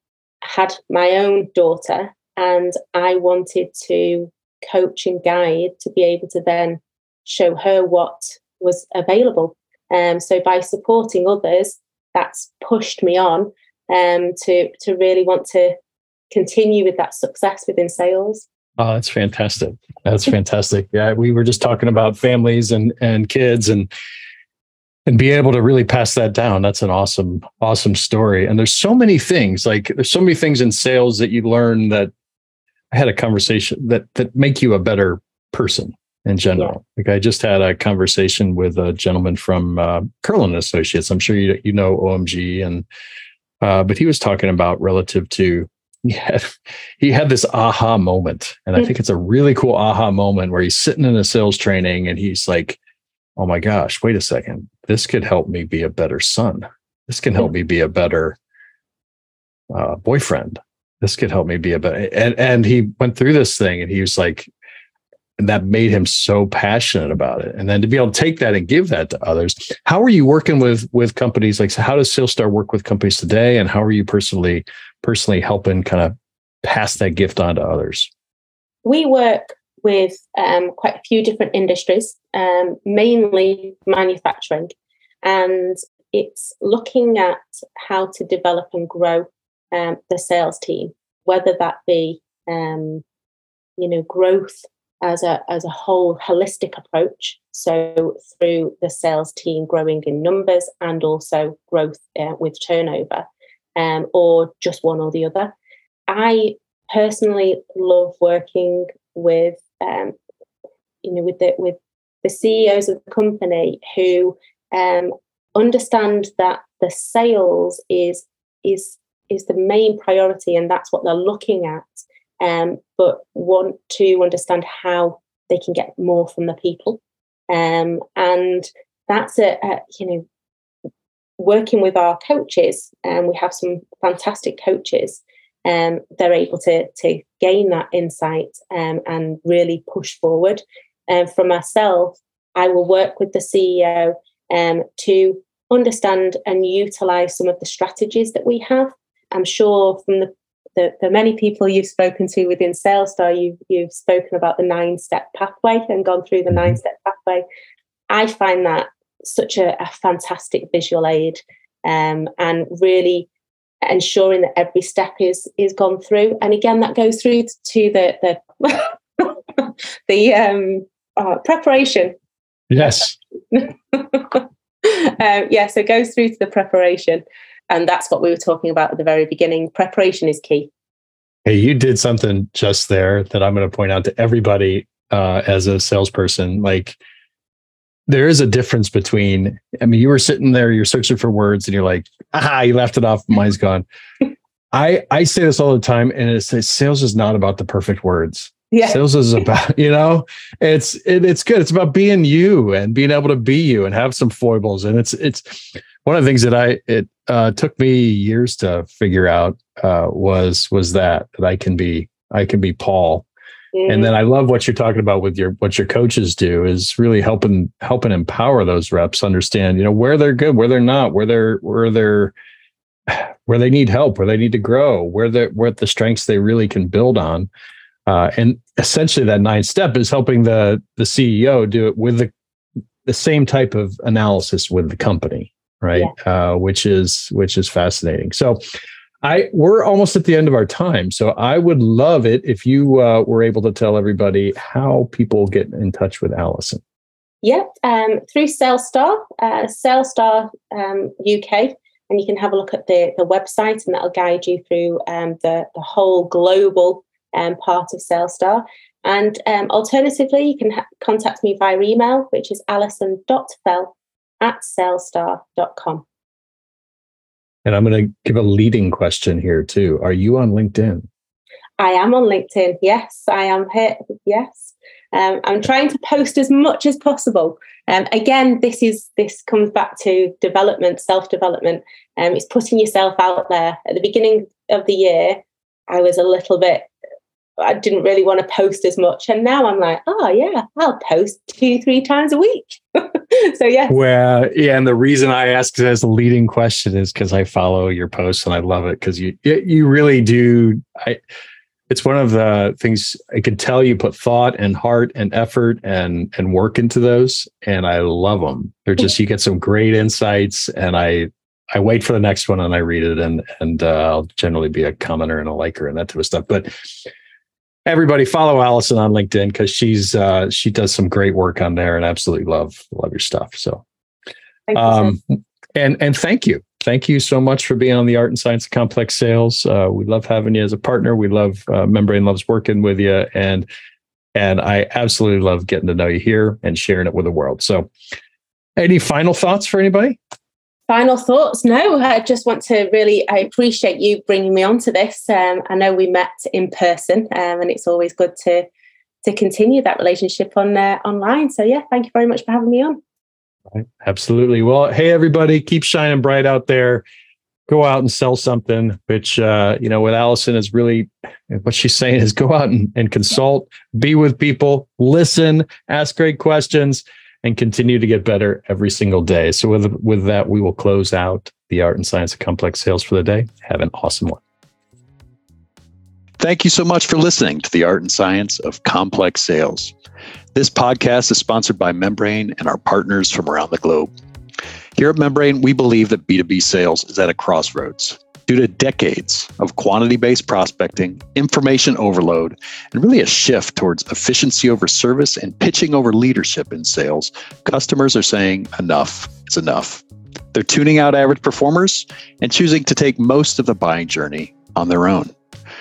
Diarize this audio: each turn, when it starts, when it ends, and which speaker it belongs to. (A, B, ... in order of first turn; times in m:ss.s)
0:00.4-0:15.8 A
0:16.3-0:18.5 A
0:18.8-0:23.9 B
0:25.1-0:32.1 B
0:32.9-0:42.9 B
0:43.6-0:52.8 B
0:53.4-0:58.4 B
0:59.7-1:04.5 B
1:05.4-1:18.1 B
1:18.8-1:33.0 A
1:33.8-1:45.5 A
1:46.1-1:50.2 A
1:51.0-2:10.2 A
2:11.4-2:37.4 A
2:38.1-2:43.3 A
2:43.8-2:52.2 A
2:52.7-2:53.2 B
2:53.5-3:00.7 A
3:01.4-3:07.0 B
3:08.1-3:13.8 B
3:14.7-3:33.3 B
3:18.7-3:19.0 A
3:33.7-3:34.1 A
3:33.9-3:42.3 B
3:43.1-3:47.5 B
3:48.1-3:52.3 B
3:53.1-3:58.6 B
3:59.2-4:06.8 B
4:07.4-4:26.0 A
4:27.6-4:31.1 B
4:31.8-4:46.9 A
4:47.6-4:53.9 A
4:53.9-5:01.2 B
5:01.9-5:16.9 B
5:17.9-5:23.8 B
5:24.7-5:25.1 A
5:24.7-5:33.7 B
5:34.4-5:37.9 B
5:38.8-5:40.2 B
5:40.9-5:48.7 A
5:49.2-5:53.0 A
5:53.7-5:57.0 B
5:57.7-6:14.4 B
6:16.4-6:19.9 C
6:20.6-6:24.1 C
6:25.0-6:40.0 C
6:40.5-6:45.3 C